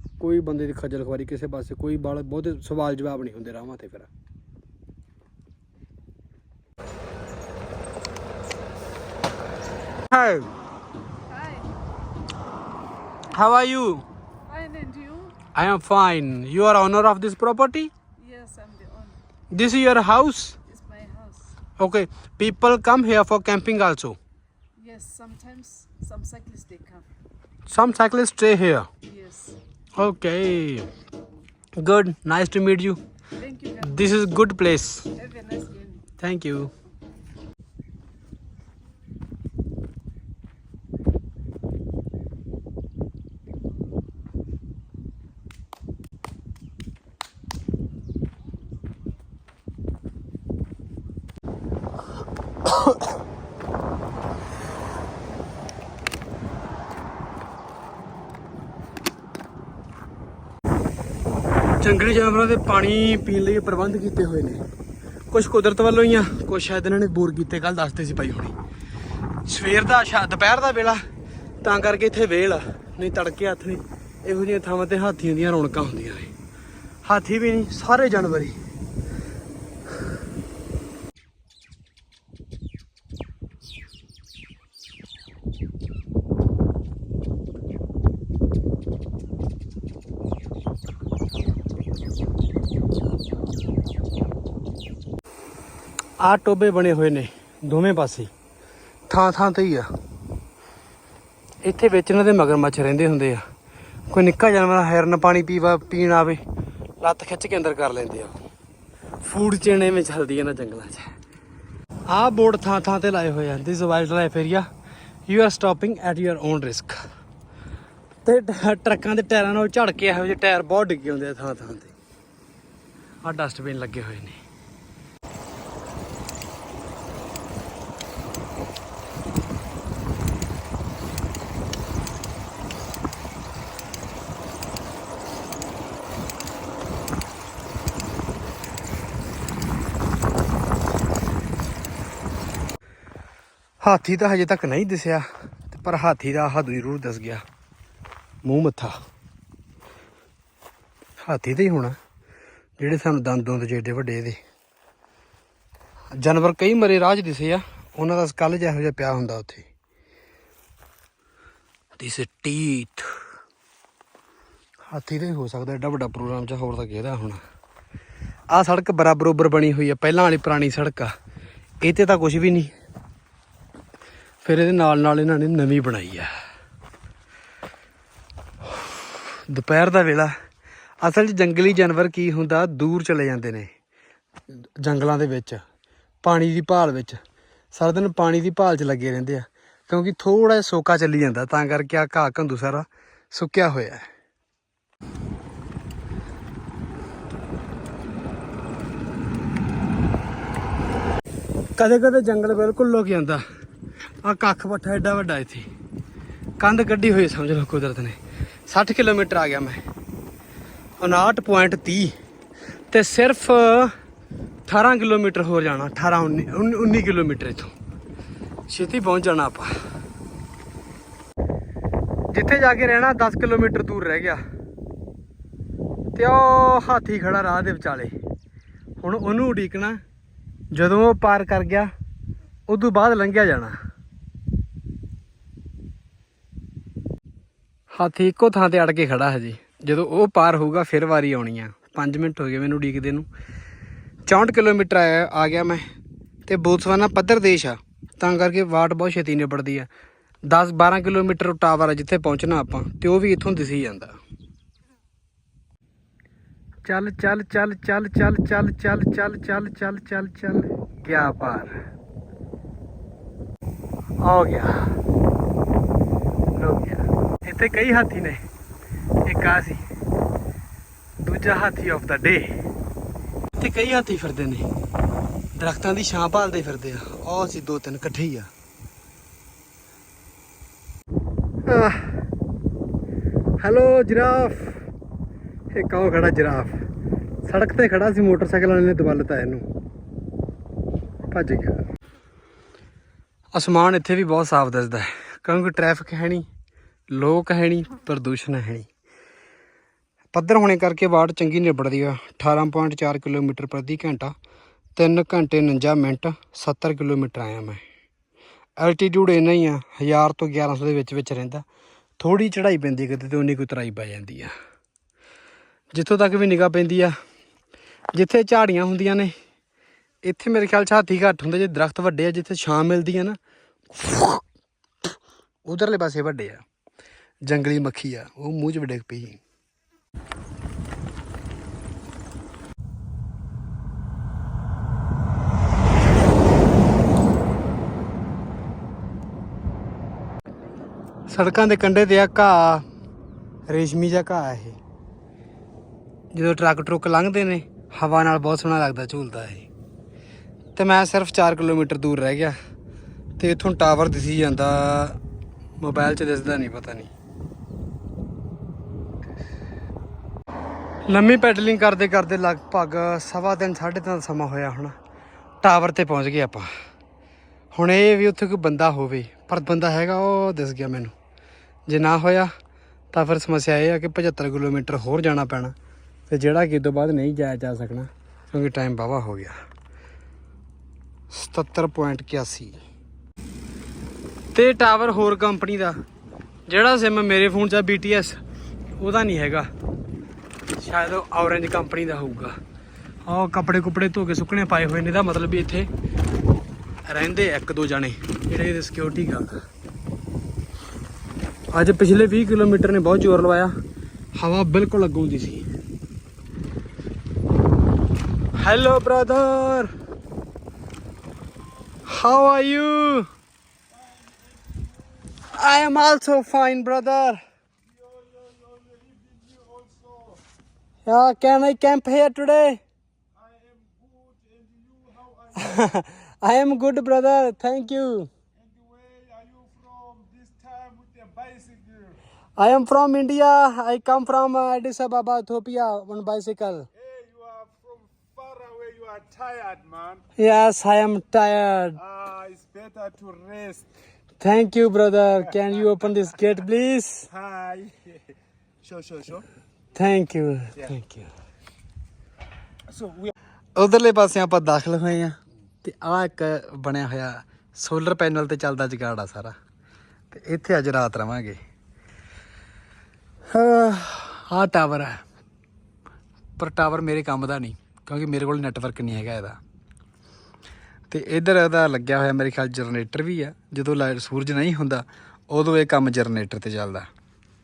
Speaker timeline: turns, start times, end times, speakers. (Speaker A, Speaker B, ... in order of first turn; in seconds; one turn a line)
Speaker A: 0.2-4.1
Speaker A: 10.1-10.5
Speaker B: 11.2-11.7
Speaker A: 13.3-14.0
Speaker B: 14.5-15.4
Speaker A: 15.6-17.9
Speaker B: 18.2-19.2
Speaker A: 19.5-20.6
Speaker B: 20.7-21.6
Speaker A: 21.8-24.2
Speaker B: 24.8-27.1
Speaker A: 27.7-28.9
Speaker B: 29.0-29.6
Speaker A: 30.0-30.9
Speaker A: 31.8-33.0
Speaker B: 33.4-34.3
Speaker A: 33.9-35.1
Speaker B: 35.1-36.1
Speaker A: 36.2-36.7
Speaker A: 61.8-64.6
Speaker A: 65.3-68.5
Speaker A: 69.5-71.0
Speaker A: 71.6-76.3
Speaker A: 77.0-78.6
Speaker A: 96.2-98.3
Speaker A: 99.1-99.9
Speaker A: 101.6-103.5
Speaker A: 104.1-106.4
Speaker A: 107.0-108.4
Speaker A: 109.2-111.1
Speaker A: 112.1-114.7
Speaker A: 115.3-117.0
Speaker A: 118.2-121.9
Speaker A: 123.2-124.4
Speaker A: 143.8-147.4
Speaker A: 148.4-149.0
Speaker A: 151.2-152.0
Speaker A: 152.8-154.4
Speaker A: 156.2-159.7
Speaker A: 162.0-163.1
Speaker A: 164.9-167.4
Speaker A: 168.5-171.1
Speaker A: 171.8-172.7
Speaker A: 174.4-176.3
Speaker A: 179.5-180.3
Speaker A: 181.0-183.7
Speaker A: 184.8-185.6
Speaker A: 186.2-187.2
Speaker A: 187.7-194.1
Speaker A: 201.8-203.4
Speaker A: 204.2-205.7
Speaker A: 206.6-209.8
Speaker A: 211.0-212.1
Speaker A: 212.9-213.9
Speaker A: 214.7-217.7
Speaker A: 218.7-219.7
Speaker A: 222.3-224.4
Speaker A: 226.1-228.1
Speaker A: 229.0-230.0
Speaker A: 230.7-231.9
Speaker A: 232.7-233.8
Speaker A: 237.9-243.3
Speaker A: 244.3-245.8
Speaker A: 246.5-249.9
Speaker A: 250.5-254.2
Speaker A: 256.9-261.8
Speaker A: 264.2-264.9
Speaker A: 266.5-268.4
Speaker A: 269.2-269.8
Speaker A: 271.2-272.6
Speaker A: 273.6-274.7
Speaker A: 275.6-278.5
Speaker A: 281.7-282.1
Speaker A: 283.6-284.8
Speaker A: 285.7-286.7
Speaker A: 287.4-289.7
Speaker A: 291.3-291.9
Speaker A: 293.5-296.5
Speaker A: 297.1-298.9
Speaker A: 300.3-304.3
Speaker A: 305.0-307.8
Speaker A: 308.8-311.6
Speaker A: 312.2-314.5
Speaker A: 315.9-317.1
Speaker A: 318.1-319.4
Speaker A: 320.2-323.4
Speaker A: 323.9-324.4
Speaker A: 325.6-326.6
Speaker A: 327.4-329.4
Speaker A: 341.3-342.9
Speaker A: 343.7-344.8
Speaker A: 346.3-349.7
Speaker A: 350.8-352.6
Speaker A: 353.4-355.2
Speaker A: 355.8-357.1
Speaker A: 361.1-364.9
Speaker A: 365.6-366.7
Speaker A: 367.7-371.1
Speaker A: 371.9-372.5
Speaker A: 373.1-375.8
Speaker A: 376.3-379.6
Speaker A: 381.3-382.8
Speaker A: 384.5-386.0
Speaker A: 386.7-388.4
Speaker A: 389.0-389.7
Speaker A: 390.8-392.6
Speaker A: 393.3-395.9
Speaker A: 397.1-399.6
Speaker A: 401.7-403.7
Speaker A: 404.4-405.7
Speaker A: 408.6-409.9
Speaker A: 412.1-413.3
Speaker C: 413.9-415.4
Speaker A: 415.6-417.4
Speaker C: 417.8-420.4
Speaker A: 421.1-422.8
Speaker C: 423.3-425.9
Speaker A: 425.6-428.3
Speaker C: 428.6-432.2
Speaker A: 432.6-436.9
Speaker C: 437.0-440.2
Speaker A: 440.4-442.0
Speaker C: 442.0-443.9
Speaker A: 444.4-447.3
Speaker C: 445.5-446.0
Speaker C: 447.3-448.2
Speaker C: 448.8-449.4
Speaker A: 449.9-451.3
Speaker C: 452.9-453.3
Speaker A: 453.8-459.6
Speaker A: 460.3-461.6
Speaker A: 463.5-465.2
Speaker A: 466.6-469.6
Speaker A: 471.1-477.1